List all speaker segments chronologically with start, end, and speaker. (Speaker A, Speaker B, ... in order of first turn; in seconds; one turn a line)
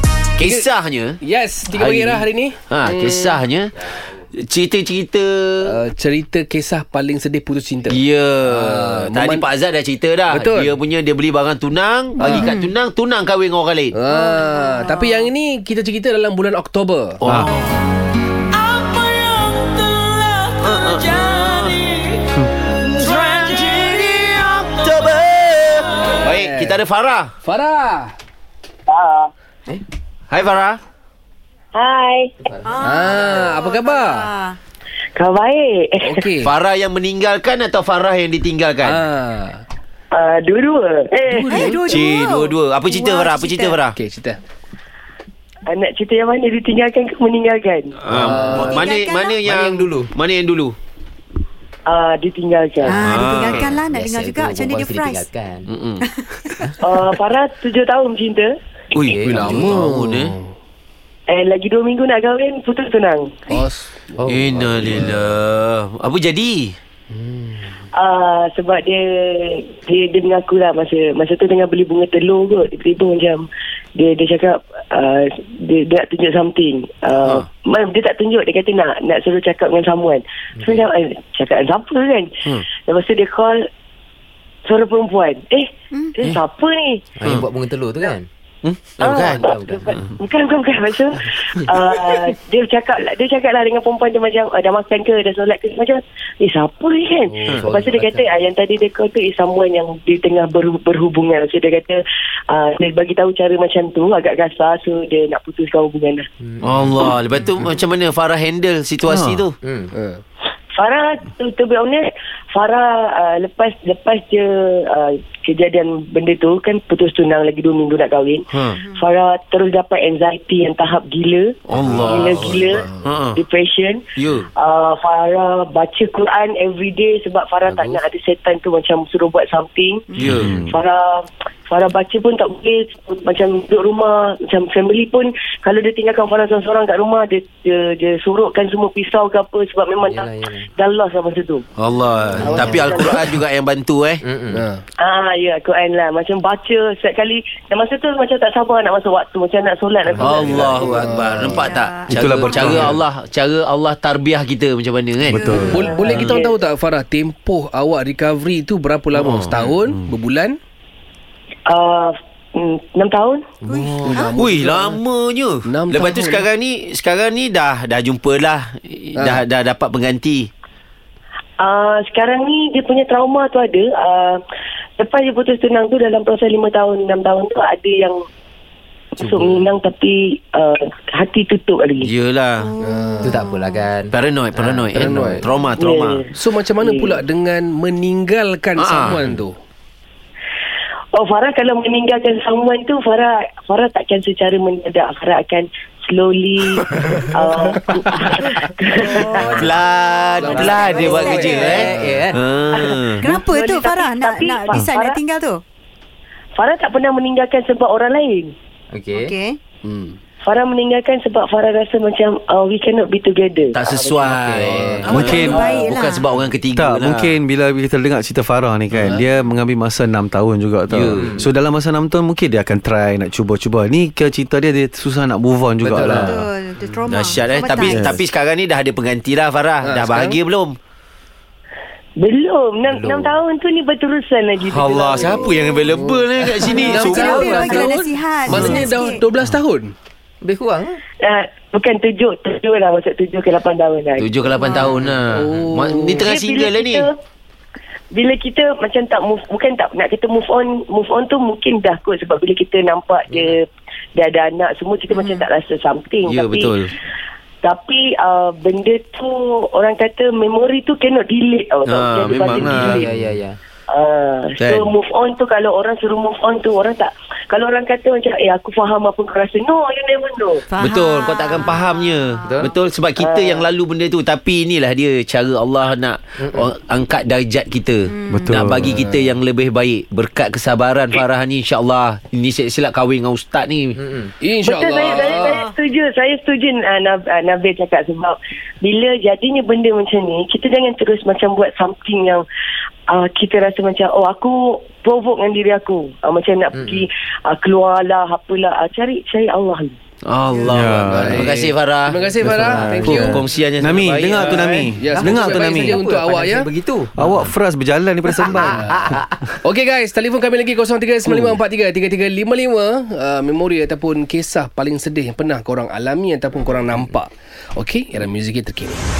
Speaker A: 0.4-1.2
Speaker B: 0.4-0.7
Speaker B: 1.2-3.4
Speaker A: 1.7-5.8
Speaker B: 5.6-9.5
Speaker A: 7.9-13.9
Speaker B: 10.3-10.8
Speaker B: 12.2-12.5
Speaker C: 12.4-12.7
Speaker B: 13.9-17.2
Speaker C: 14.1-15.2
Speaker A: 17.2-17.7
Speaker A: 20.6-22.0
Speaker A: 22.6-27.3
Speaker B: 26.2-26.8
Speaker B: 27.4-28.1
Speaker D: 28.9-29.3
Speaker A: 30.3-30.8
Speaker D: 31.7-32.3
Speaker C: 32.7-34.5
Speaker B: 32.9-34.3
Speaker D: 35.1-36.2
Speaker B: 36.0-36.5
Speaker A: 36.4-39.0
Speaker B: 38.8-39.6
Speaker D: 40.1-41.8
Speaker B: 41.3-41.8
Speaker C: 41.4-43.8
Speaker A: 41.8-44.0
Speaker B: 43.9-44.4
Speaker D: 45.7-48.0
Speaker A: 48.0-50.8
Speaker B: 48.1-48.9
Speaker C: 48.3-49.5
Speaker E: 49.4-50.1
Speaker D: 51.9-53.2
Speaker C: 52.8-55.3
Speaker E: 53.0-55.7
Speaker A: 53.0-53.7
Speaker A: 55.7-56.0
Speaker C: 56.0-56.5
Speaker D: 56.8-58.5
Speaker A: 58.9-60.3
Speaker E: 59.1-59.7
Speaker B: 59.3-60.5
Speaker D: 61.3-63.4
Speaker B: 63.5-64.1
Speaker E: 64.2-64.8
Speaker A: 64.2-66.8
Speaker B: 67.1-67.7
Speaker D: 67.9-83.6
Speaker E: 80.5-80.9
Speaker D: 84.7-87.0
Speaker E: 87.2-88.3
Speaker A: 88.6-89.5
Speaker D: 89.0-106.3
Speaker E: 89.2-90.0
Speaker E: 97.3-98.4
Speaker E: 106.4-106.8
Speaker A: 106.6-109.6
Speaker F: 109.1-109.4
Speaker E: 109.6-109.9
Speaker B: 109.9-110.2
Speaker D: 110.7-141.7
Speaker A: 118.5-118.8
Speaker A: 121.7-123.4
Speaker B: 121.8-123.1
Speaker A: 124.2-124.5
Speaker E: 127.7-128.0
Speaker A: 130.2-130.5
Speaker F: 130.3-130.7
Speaker E: 140.0-140.7
Speaker A: 141.8-144.2
Speaker E: 142.3-142.8
Speaker D: 142.4-143.4
Speaker B: 142.4-143.1
Speaker E: 144.2-144.7
Speaker B: 144.5-144.8
Speaker D: 145.0-151.1
Speaker A: 150.2-155.5
Speaker B: 150.9-151.7
Speaker C: 151.5-152.8
Speaker F: 152.1-153.0
Speaker F: 155.2-155.9
Speaker C: 155.3-156.0
Speaker D: 155.6-156.5
Speaker B: 155.7-160.6
Speaker A: 159.1-159.6
Speaker F: 159.6-160.1
Speaker D: 161.7-163.4
Speaker B: 163.6-165.0
Speaker C: 163.7-164.3
Speaker A: 164.3-170.5
Speaker B: 165.6-166.4
Speaker B: 169.2-169.4
Speaker D: 171.6-174.4
Speaker D: 175.0-178.2
Speaker D: 179.2-182.1
Speaker E: 179.2-179.8
Speaker A: 182.0-182.8
Speaker C: 182.7-183.8
Speaker B: 182.8-183.5
Speaker E: 183.2-184.1
Speaker A: 184.1-186.2
Speaker B: 184.6-185.4
Speaker D: 185.8-187.2
Speaker B: 186.3-189.6
Speaker A: 188.8-189.3
Speaker D: 191.1-199.7
Speaker C: 199.1-201.8
Speaker A: 199.3-203.2
Speaker B: 200.4-202.2
Speaker E: 200.4-202.4
Speaker D: 200.5-201.5
Speaker C: 203.2-205.6
Speaker D: 203.3-205.2
Speaker D: 206.6-208.5
Speaker E: 208.9-209.4
Speaker C: 209.1-209.6
Speaker B: 209.8-210.2
Speaker D: 210.4-214.3
Speaker A: 213.7-217.3
Speaker E: 214.1-215.2
Speaker B: 214.7-215.7
Speaker F: 215.1-215.7
Speaker D: 215.1-215.9
Speaker C: 215.2-216.3
Speaker F: 216.7-226.5
Speaker B: 219.0-219.2
Speaker A: 220.9-221.3
Speaker E: 221.2-221.4
Speaker E: 225.8-226.4
Speaker C: 226.1-228.1
Speaker A: 227.1-230.8
Speaker F: 227.8-228.2
Speaker B: 229.8-230.4
Speaker D: 232.2-235.6
Speaker E: 232.9-233.3
Speaker A: 234.7-237.8
Speaker C: 235.2-235.6
Speaker B: 235.9-239.9
Speaker C: 236.7-239.2
Speaker E: 237.3-237.7
Speaker E: 240.4-241.0
Speaker D: 241.2-244.3
Speaker A: 244.2-247.1
Speaker C: 244.6-244.9
Speaker E: 244.8-245.2
Speaker B: 245.2-246.3
Speaker D: 246.2-247.1
Speaker D: 248.1-253.6
Speaker E: 253.3-253.6
Speaker D: 254.1-256.7
Speaker C: 255.1-255.4
Speaker A: 256.2-256.9
Speaker D: 257.6-263.1
Speaker A: 261.9-263.1
Speaker E: 262.5-263.6
Speaker D: 263.9-270.7
Speaker A: 264.6-264.9
Speaker C: 270.7-272.5
Speaker A: 270.8-284.0
Speaker D: 273.2-273.7
Speaker C: 278.1-278.5
Speaker F: 278.3-279.0
Speaker B: 278.9-279.3
Speaker E: 284.0-284.3
Speaker B: 284.4-285.6
Speaker D: 284.6-292.4
Speaker C: 285.1-285.7
Speaker D: 293.1-299.9
Speaker E: 296.7-297.1
Speaker A: 300.2-304.9
Speaker F: 300.7-301.6
Speaker B: 301.0-303.4
Speaker F: 302.4-306.0
Speaker B: 304.1-306.7
Speaker E: 305.1-307.4
Speaker F: 307.1-309.2
Speaker E: 308.4-309.4
Speaker B: 308.7-309.1
Speaker B: 309.6-319.0
Speaker F: 311.2-311.6